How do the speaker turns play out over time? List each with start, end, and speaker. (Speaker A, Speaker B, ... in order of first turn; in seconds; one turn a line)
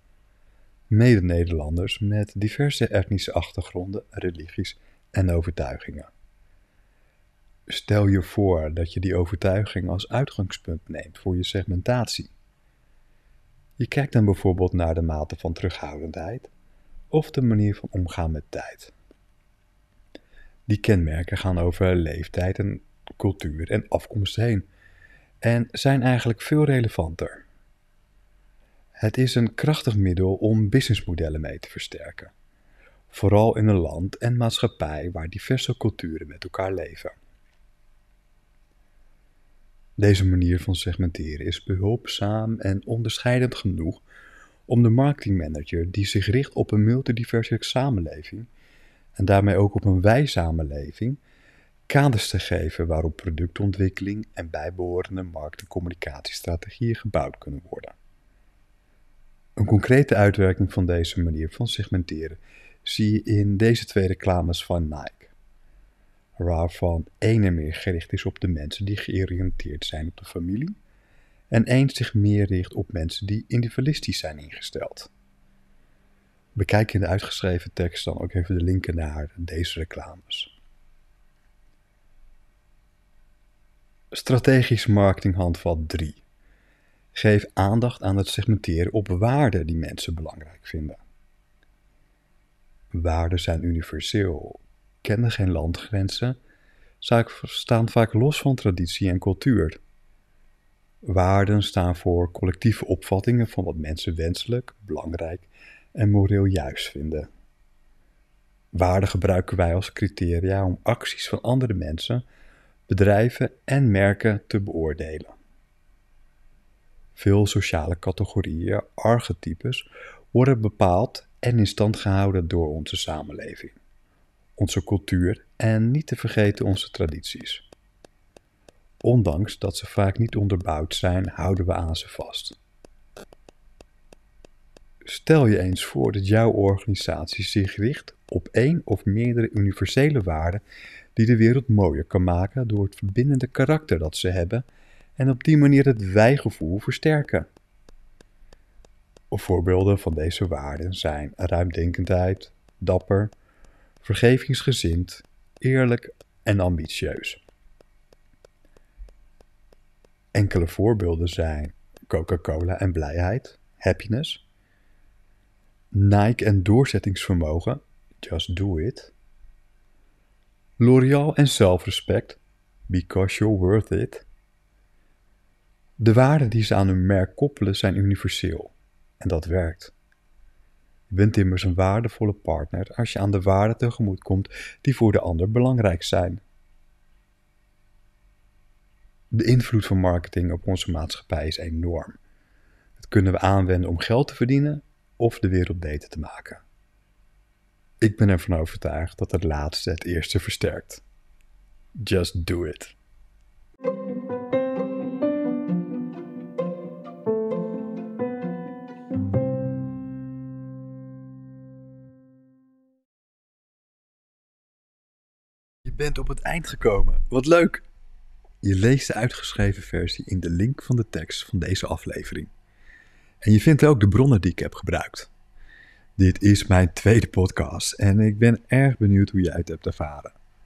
Speaker A: 0.9-6.1
Speaker A: 7.7-12.3
Speaker A: 13.8-16.5
Speaker A: 17.1-18.9
Speaker A: 20.7-24.7
Speaker A: 25.4-27.4
Speaker A: 29.0-32.3
Speaker A: 33.1-37.2
Speaker A: 40.0-44.0
Speaker A: 44.7-48.5
Speaker A: 49.1-51.2
Speaker A: 51.9-58.0
Speaker A: 59.6-65.3
Speaker A: 66.4-70.8
Speaker A: 71.5-75.1
Speaker A: 76.5-80.5
Speaker A: 84.1-86.2
Speaker A: 87.1-91.0
Speaker A: 92.9-96.4
Speaker A: 97.0-99.8
Speaker A: 101.0-107.3
Speaker A: 108.7-112.2
Speaker A: 112.9-115.3
Speaker A: 117.1-123.7
Speaker A: 124.5-127.7
Speaker A: 129.0-132.5
Speaker A: 135.0-140.6
Speaker A: 141.2-144.6
Speaker A: 145.2-147.5
Speaker A: 149.3-153.3
Speaker A: 154.0-157.4
Speaker A: 160.3-164.4
Speaker A: 165.9-169.1
Speaker A: 170.8-174.2
Speaker A: 176.0-179.9
Speaker A: 181.1-186.4
Speaker A: 189.3-192.2
Speaker A: 193.0-196.6
Speaker A: 198.0-201.0
Speaker A: 202.0-202.9
Speaker A: 215.8-217.8
Speaker A: 218.6-222.5
Speaker A: 223.4-225.3
Speaker A: 226.2-230.3